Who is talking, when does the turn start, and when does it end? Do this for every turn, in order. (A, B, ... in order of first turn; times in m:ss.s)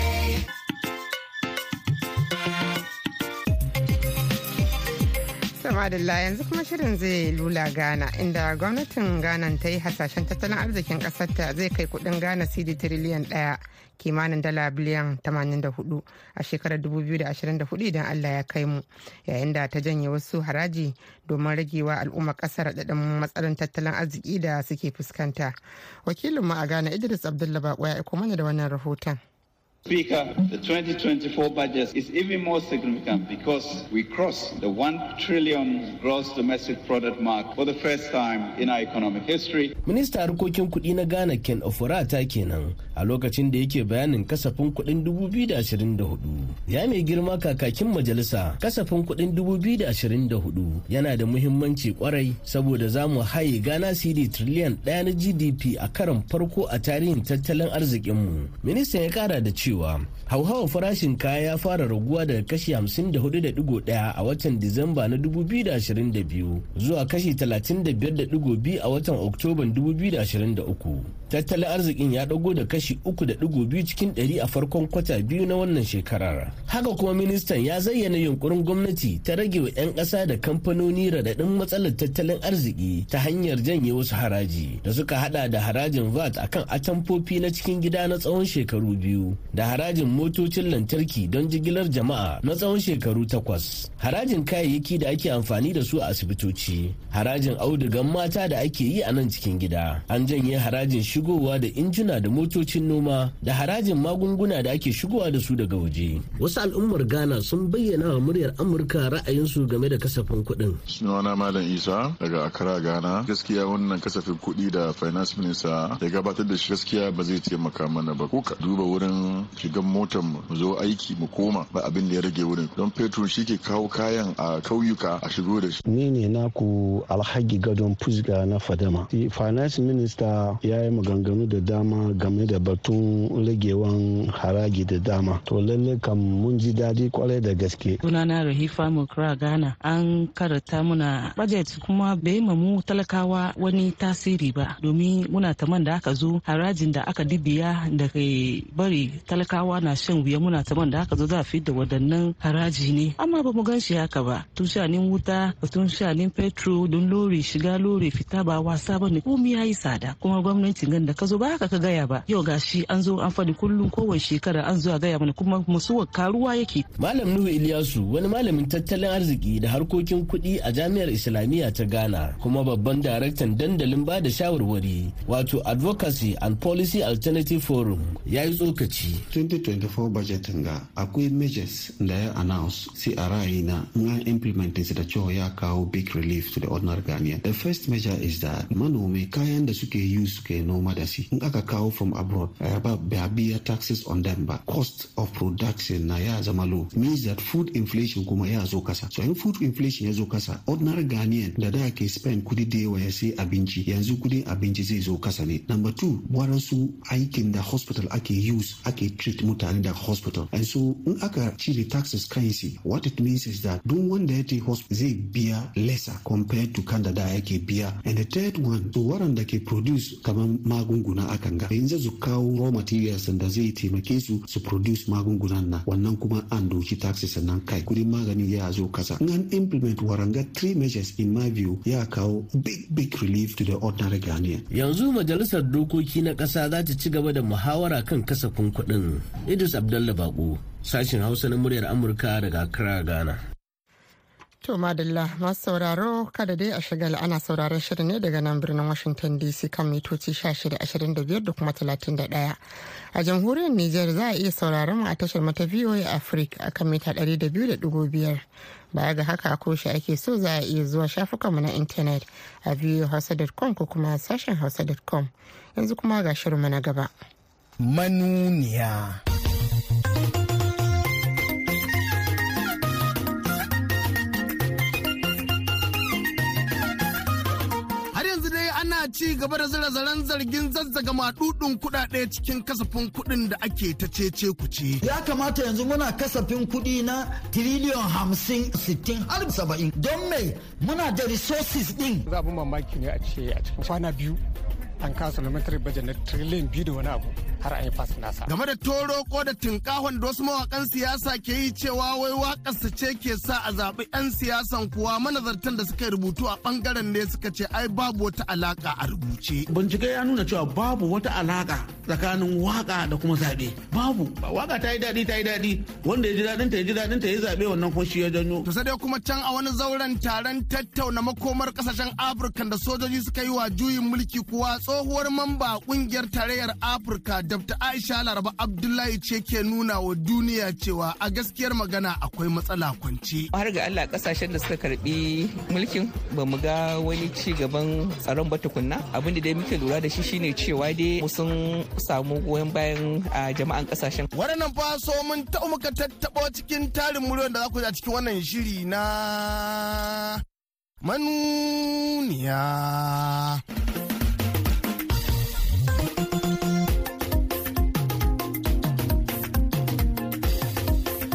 0:05.6-0:25.6 A
0:26.1-0:29.2 A
0:29.9-0:39.7 B
0:39.8-1:50.8 C
1:50.9-2:05.8 D
2:05.9-2:18.0 E
2:18.0-2:46.9 F
2:47.0-2:59.2 C
2:59.3-3:54.7 G
3:54.7-4:03.4 C
4:04.6-4:12.6 A
4:13.1-4:18.4 A
4:18.9-4:27.1 A
4:27.8-4:29.2 H
4:38.1-4:45.0 H
4:45.0-4:52.2 I
4:52.3-4:54.4 J
4:55.0-4:58.5 J
4:58.5-5:09.6 H
5:09.7-5:18.7 K
5:18.6-5:33.5 H
5:33.5-5:44.3 L
5:44.3-5:50.4 H
5:51.0-5:53.6 H